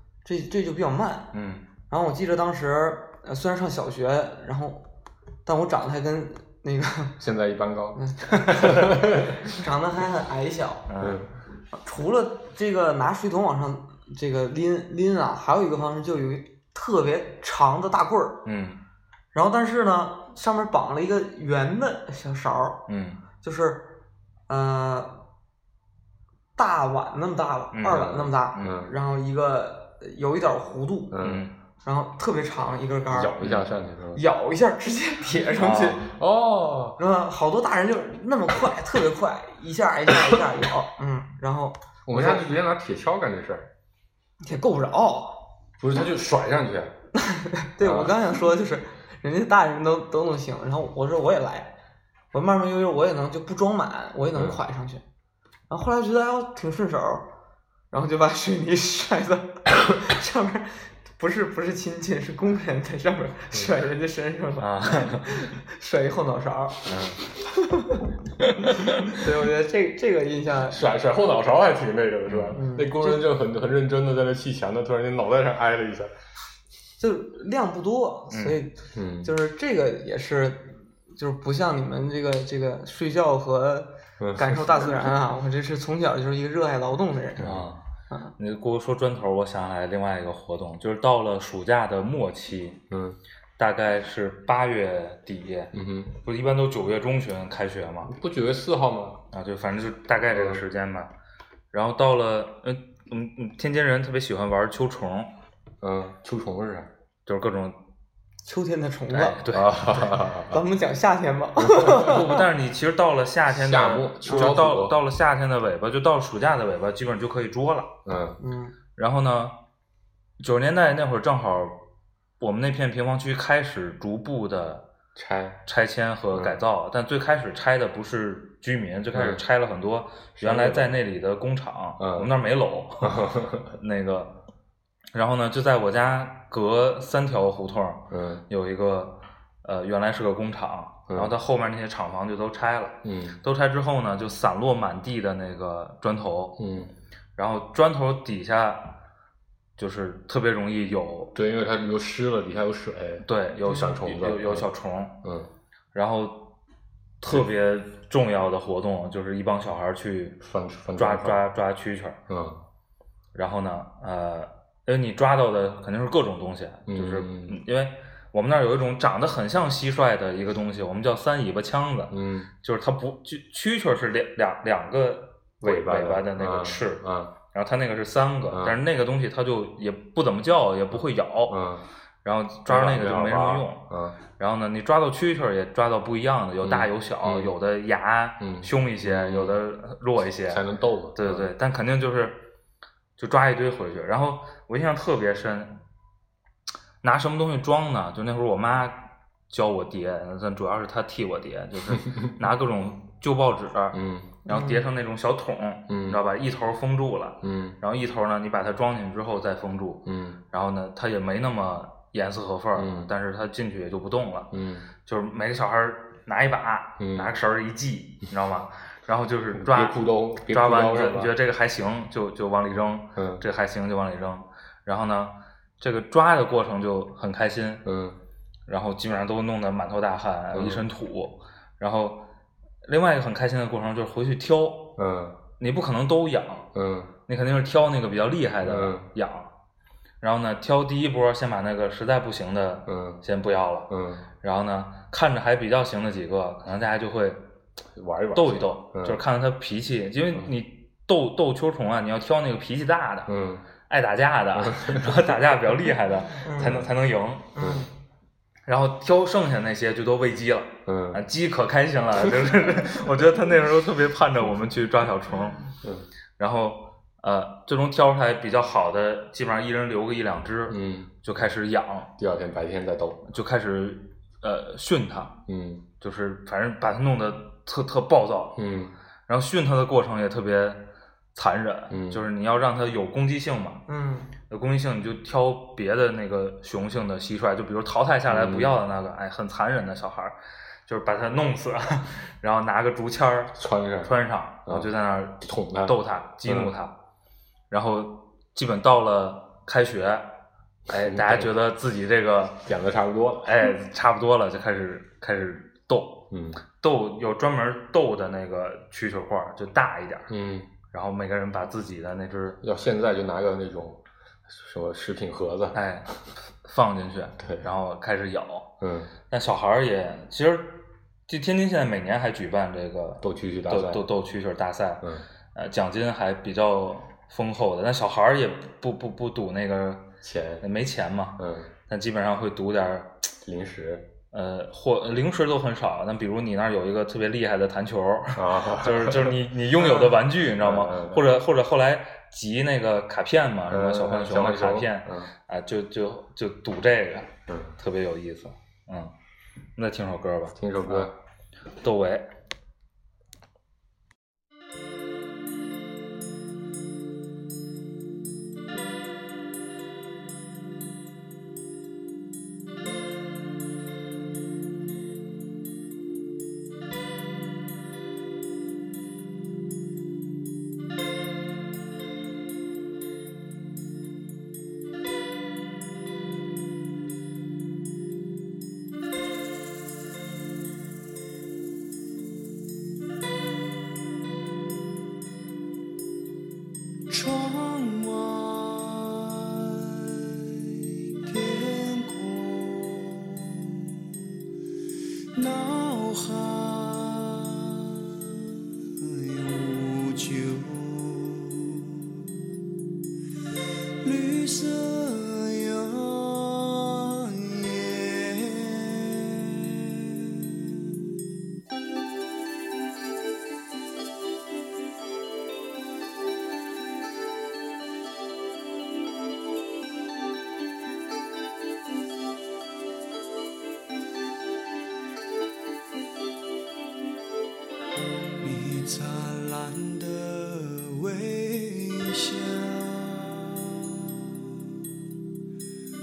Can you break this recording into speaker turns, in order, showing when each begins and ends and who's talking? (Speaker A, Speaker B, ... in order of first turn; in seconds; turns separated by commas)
Speaker A: 0.2-1.3, Speaker B: 1.3-1.6, Speaker A: 1.9-4.9, Speaker A: 5.4-7.2, Speaker C: 7.2-9.5, Speaker A: 7.9-10.9, Speaker B: 10.9-11.2, Speaker C: 11.0-11.3, Speaker A: 11.7-18.4, Speaker B: 18.4-18.8, Speaker A: 19.3-22.9, Speaker B: 22.9-23.2, Speaker A: 23.4-25.2, Speaker A: 26.6-31.2, Speaker B: 27.7-28.8, Speaker C: 27.9-28.9, Speaker C: 31.1-31.5, Speaker B: 31.2-31.5, Speaker A: 31.8-33.3, Speaker C: 33.1-34.2, Speaker B: 33.4-33.7, Speaker A: 34.1-36.0, Speaker B: 35.6-36.1, Speaker C: 36.0-37.0, Speaker A: 37.0-42.5, Speaker C: 42.1-43.7, Speaker A: 44.4-45.5, Speaker C: 45.8-47.0, Speaker A: 47.1-51.8, Speaker C: 47.8-48.2, Speaker A: 52.3-55.0, Speaker C: 54.3-54.6, Speaker A: 55.7-57.3, Speaker A: 57.9-66.8, Speaker B: 64.6-65.3, Speaker B: 66.8-67.2, Speaker C: 66.9-67.2, Speaker A: 67.6-68.0, Speaker B: 68.4-69.1, Speaker A: 68.6-70.9, Speaker C: 70.7-76.1, Speaker B: 72.3-72.6, Speaker A: 72.5-73.2, Speaker A: 77.0-87.5, Speaker B: 78.3-78.6, Speaker C: 78.9-79.3, Speaker C: 84.2-85.1, Speaker C: 87.4-87.7, Speaker B: 87.4-87.8, Speaker B: 88.4-92.8, Speaker C: 92.9-93.2, Speaker B: 93.6-98.1, Speaker C: 95.7-96.2, Speaker C: 98.1-99.2, Speaker B: 99.3-101.1, Speaker C: 100.3-100.6, Speaker B: 101.7-105.3, Speaker C: 105.8-106.9, Speaker B: 107.2-107.8, Speaker A: 108.4-109.4, Speaker B: 109.1-110.0, Speaker C: 109.5-110.6, Speaker A: 110.3-112.4, Speaker C: 111.6-112.4, Speaker B: 111.8-117.9, Speaker C: 113.5-115.0, Speaker C: 118.0-118.4, Speaker A: 118.4-118.7, Speaker B: 119.0-119.5, Speaker B: 120.4-121.8, Speaker B: 122.4-124.9, Speaker C: 125.1-125.6, Speaker B: 125.7-134.4, Speaker C: 126.3-126.6, Speaker C: 129.1-129.4, Speaker C: 130.4-130.9, Speaker C: 132.0-132.3, Speaker C: 133.0-133.7, Speaker B: 135.1-146.6, Speaker C: 138.1-138.4, Speaker C: 141.1-141.3, Speaker C: 143.0-143.4, Speaker C: 146.6-146.9, Speaker B: 147.3-149.0, Speaker B: 149.8-151.3, Speaker C: 151.3-154.7, Speaker B: 153.2-155.2, Speaker C: 155.2-155.5, Speaker B: 155.9-156.6, Speaker B: 157.2-160.4, Speaker C: 160.4-161.4, Speaker B: 161.0-162.2, Speaker C: 162.3-162.6, Speaker B: 163.3-181.6, Speaker C: 166.9-167.6, Speaker C: 172.1-172.5, Speaker C: 175.6-177.3, Speaker C: 178.5-178.8, Speaker C: 181.5-181.8, Speaker B: 182.2-190.6, Speaker C: 182.7-184.2, Speaker C: 186.6-187.5, Speaker C: 188.4-189.6, Speaker C: 190.5-191.5, Speaker B: 191.2-192.4, Speaker B: 193.2-195.8, Speaker B: 197.0-214.5, Speaker C: 203.9-204.3, Speaker A: 204.4-204.8, Speaker C: 205.9-206.2, Speaker C: 207.4-207.8, Speaker C: 210.1-210.4, Speaker C: 212.7-213.1, Speaker C: 214.5-214.9, Speaker B: 215.0-227.8, Speaker C: 217.0-217.3, Speaker C: 219.5-221.3, Speaker C: 223.2-223.4, Speaker C: 227.8-228.2, Speaker B: 228.7-232.3, Speaker C: 230.5-230.8, Speaker B: 232.8-235.0, Speaker C: 235.0-235.4, Speaker B: 235.6-236.7, Speaker C: 236.7-237.1, Speaker B: 237.3-239.5, Speaker C: 238.6-239.1, Speaker B: 240.2-243.9, Speaker C: 242.9-243.2, Speaker C: 243.9-244.3, Speaker B: 244.4-247.4, Speaker C: 247.9-249.2, Speaker B: 248.3-253.3, Speaker C: 253.3-253.7, Speaker B: 253.9-257.6, Speaker C: 254.5-255.3, Speaker A: 256.4-256.8, Speaker C: 256.6-256.9, Speaker A: 257.6-257.9, Speaker C: 257.6-257.9, Speaker B: 258.6-265.7, Speaker C: 260.9-261.2, Speaker C: 265.8-266.1, Speaker B: 266.4-272.1, Speaker C: 270.7-271.1, Speaker C: 272.2-273.2, Speaker B: 273.3-275.4, Speaker C: 275.5-275.8, Speaker B: 276.0-278.6, Speaker C: 278.6-278.9, Speaker B: 279.3-283.8, Speaker C: 281.9-282.2, Speaker A: 283.9-284.3, Speaker B: 284.5-290.4, Speaker C: 288.3-288.8, Speaker B: 290.9-296.9, Speaker C: 293.5-294.1, Speaker C: 294.6-296.7, Speaker B: 297.7-300.4, Speaker B: 300.9-302.6, Speaker C: 300.9-301.5, Speaker C: 302.6-303.6, Speaker B: 303.4-306.3, Speaker C: 306.3-306.6, Speaker B: 306.8-310.3, Speaker C: 310.3-310.7, Speaker B: 310.9-312.6, Speaker C: 312.6-315.8, Speaker B: 315.7-318.7, Speaker C: 317.4-317.7, Speaker C: 318.8-319.1, Speaker B: 319.3-333.3, Speaker C: 323.2-324.0, Speaker C: 325.0-325.3, Speaker C: 330.2-330.6, Speaker C: 331.4-331.7, Speaker C: 333.4-334.1, Speaker B: 334.3-349.1, Speaker C: 338.3-339.4, Speaker C: 339.9-341.2, Speaker C: 343.7-345.3, Speaker C: 347.5-347.8, Speaker B: 349.8-351.1, Speaker C: 350.6-351.1, Speaker B: 351.8-352.3, Speaker D: 387.1-394.1, Speaker D: 395.3-398.4, Speaker D: 399.0-402.2, Speaker D: 404.0-410.9, Speaker D: 428.4-434.5